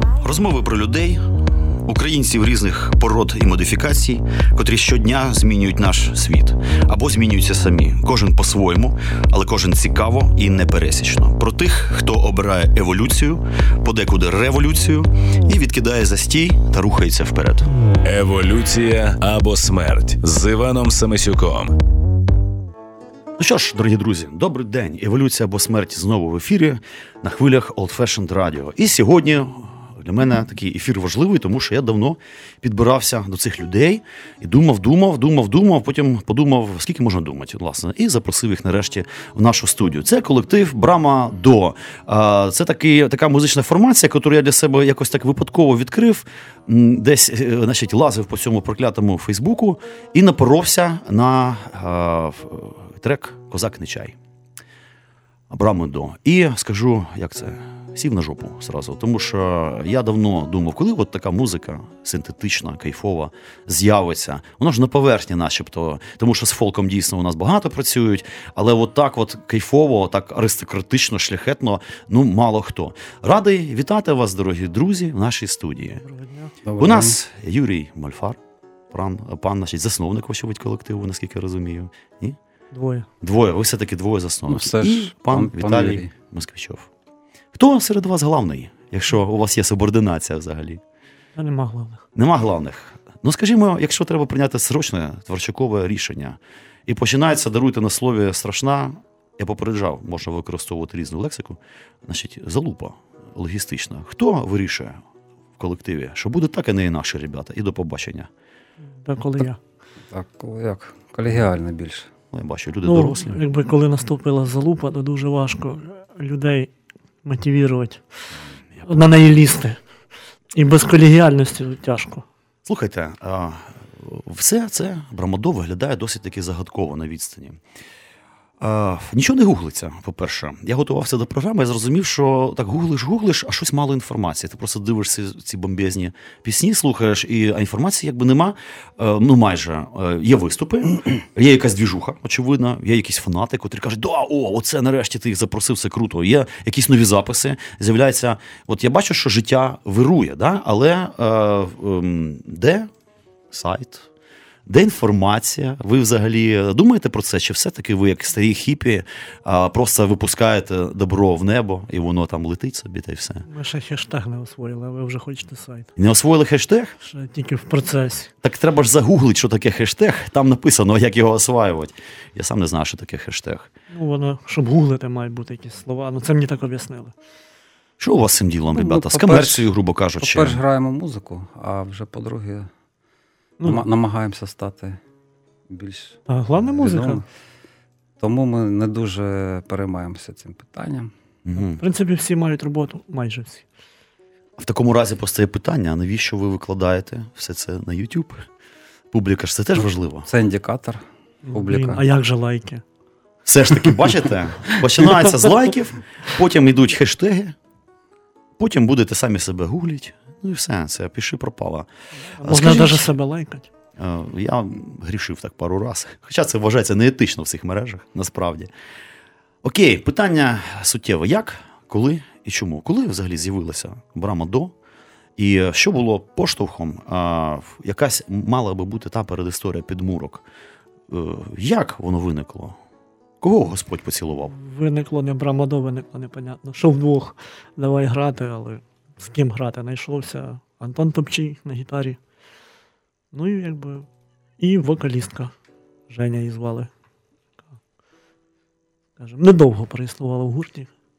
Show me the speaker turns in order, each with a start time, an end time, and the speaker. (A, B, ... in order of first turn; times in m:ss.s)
0:00.1-0:17.7 A
0:18.0-0:21.7 B
0:23.4-0:54.2 A
0:55.5-1:16.0 A
1:15.9-1:16.5 C
1:16.6-1:17.2 D
1:16.8-1:18.4 A
1:18.9-1:22.4 A
1:22.7-1:23.1 C
1:23.2-1:26.9 A
1:24.5-1:26.1 D
1:27.5-1:30.8 A
1:31.4-1:32.0 C
1:32.1-1:45.0 A
1:45.6-1:48.3 A
1:49.0-1:49.6 C
1:50.1-1:52.1 D
1:52.3-1:53.4 A
1:52.8-1:56.7 C
1:57.2-1:58.0 C
1:58.7-1:59.1 A
1:58.8-1:59.8 C
2:00.5-2:02.2 C
2:02.6-2:07.6 A
2:08.6-2:32.9 A
2:33.5-2:34.1 A
2:34.6-2:43.5 A
2:43.5-2:45.9 C
2:46.0-2:47.0 A
2:47.0-2:48.3 C
2:48.4-2:53.7 A
2:53.9-2:57.1 C
2:58.0-3:00.6 A
2:58.7-2:59.7 D
3:00.2-3:02.7 D
3:03.6-3:03.8 C
3:03.6-3:05.0 D
3:05.7-3:07.2 D
3:06.3-3:07.2 C
3:08.2-3:11.1 D
3:11.4-3:11.8 A
3:11.8-3:13.6 C
3:14.6-3:18.4 A
3:19.1-3:20.3 A
3:20.2-3:22.0 D
3:21.4-3:22.8 C
3:23.4-3:27.6 A
3:28.6-3:31.9 A
3:32.2-3:33.7 C
3:32.4-3:33.1 A
3:34.0-3:38.7 A
3:39.6-3:44.7 A
3:45.4-3:50.4 A
3:51.1-3:52.8 A
3:53.4-3:54.5 A
3:54.5-4:02.2 C
4:03.3-4:04.1 C
4:04.6-4:05.5 C
4:06.1-4:06.9 C
4:09.2-4:10.9 C